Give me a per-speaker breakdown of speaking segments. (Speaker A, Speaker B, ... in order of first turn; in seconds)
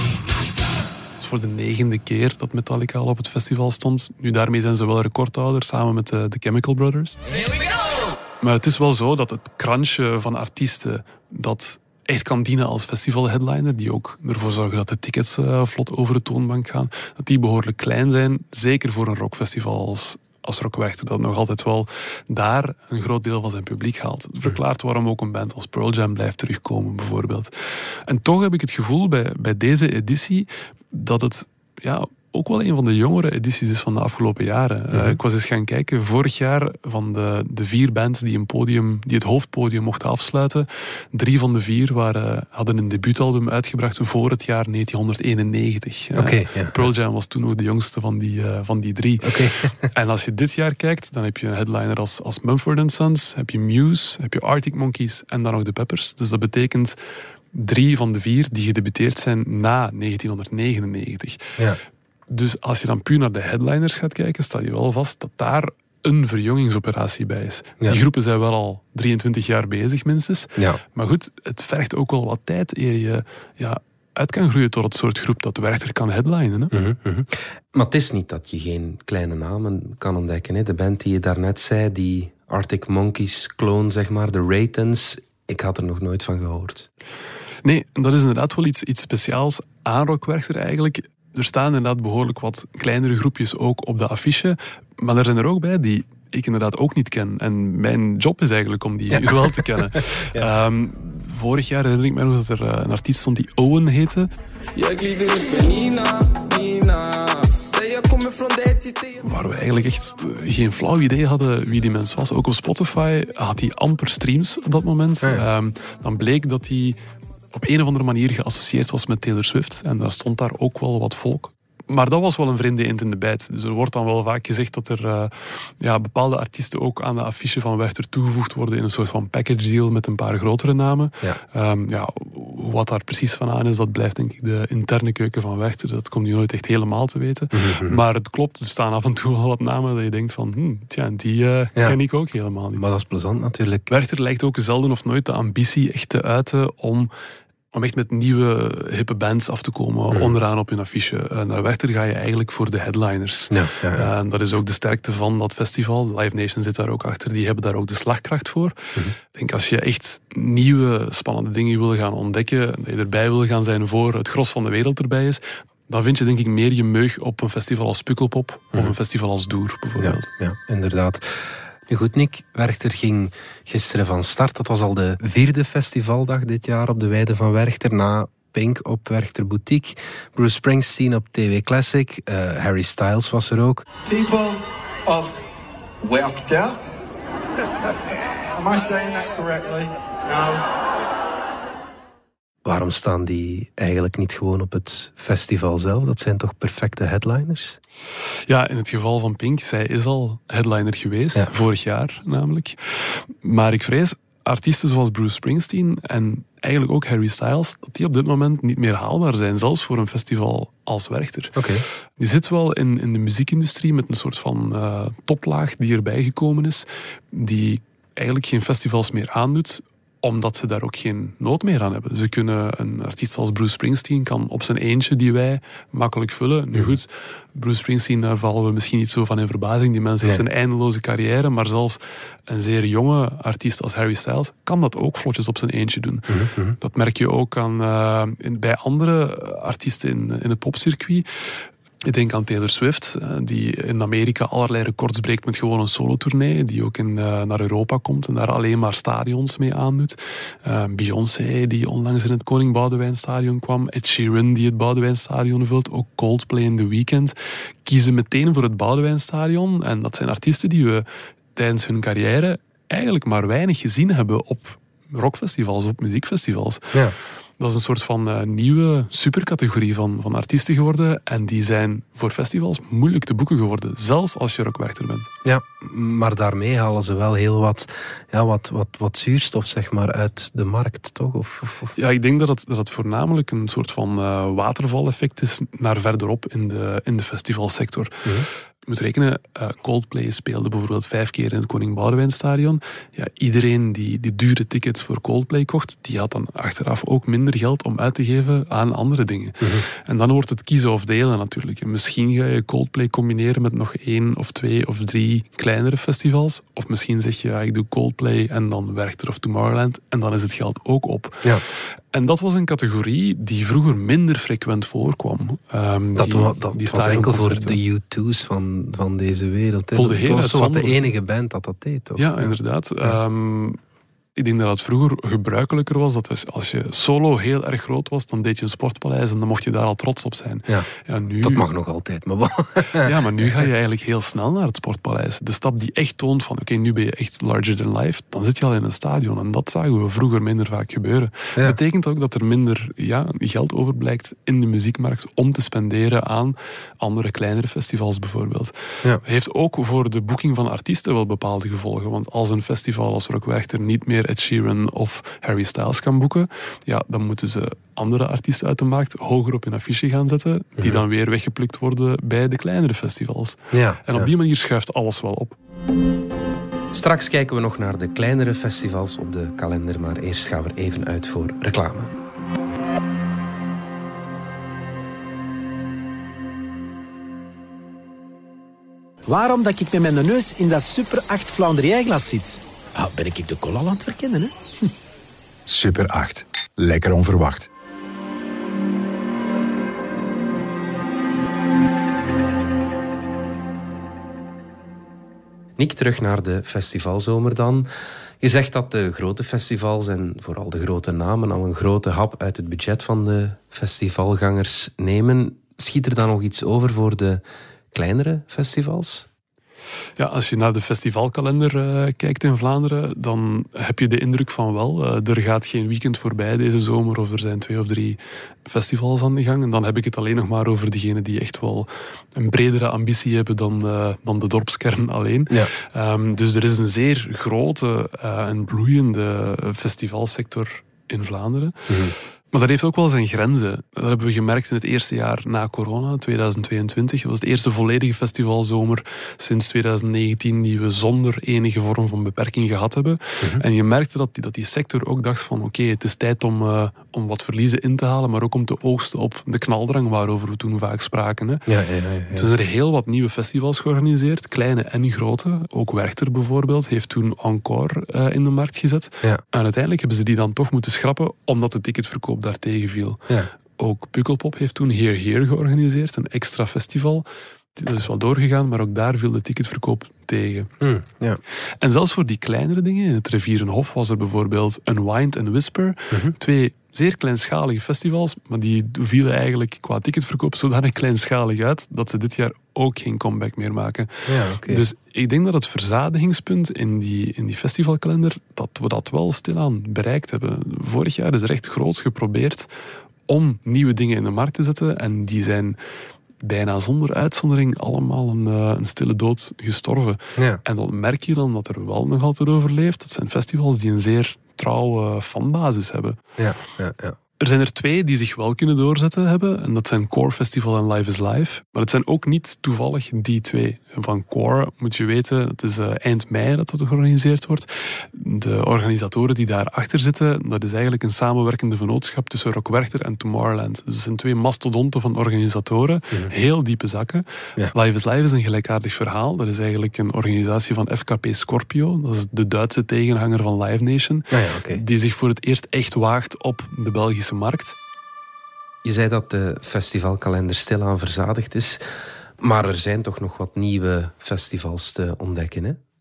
Speaker A: 1.2-7.2, 8.4-27.5, 28.1-49.3, 49.9-57.0, 57.5-61.4, 62.3-76.7, 87.6-104.3, 109.2-117.0, 117.5-142.8, 143.9-147.1, 147.7-158.8, 159.3-170.3, 198.5-202.8, 203.4-211.6, 212.2-236.3, 236.8-241.3, 242.1-266.8, 267.6-275.3, 281.9-288.1, 288.9-311.5, 312.1-317.8, 319.9-321.1, 322.2-323.8, 324.4-331.7, 333.0-365.6, 410.2-431.8, 432.5-451.6, 452.3-463.2, 463.8-470.7, 471.8-484.1, 484.7-492.7, 493.3-495.8, 496.4-506.2, 507.4-537.7
Speaker B: 34.9-35.2, 46.1-46.9, 49.2-49.7, 76.7-86.9, 99.1-100.5, 115.2-115.5, 137.5-138.0, 142.7-143.9, 153.5-154.1, 170.0-183.8, 192.6-197.8, 211.6-211.8, 236.3-236.8, 275.4-281.9, 316.1-322.5, 331.4-333.6, 363.7-364.3, 366.9-372.1, 395.8-397.9, 398.4-409.3, 431.9-432.1, 451.7-452.6, 470.8-471.4, 484.3-484.9, 506.4-507.1, 534.3-534.8, 538.8-541.8, 542.4-545.8
Speaker C: 104.8-109.2
Speaker D: 184.0-185.3, 186.0-186.8, 188.5-190.6
Speaker E: 379.3-384.8
Speaker F: 385.7-387.6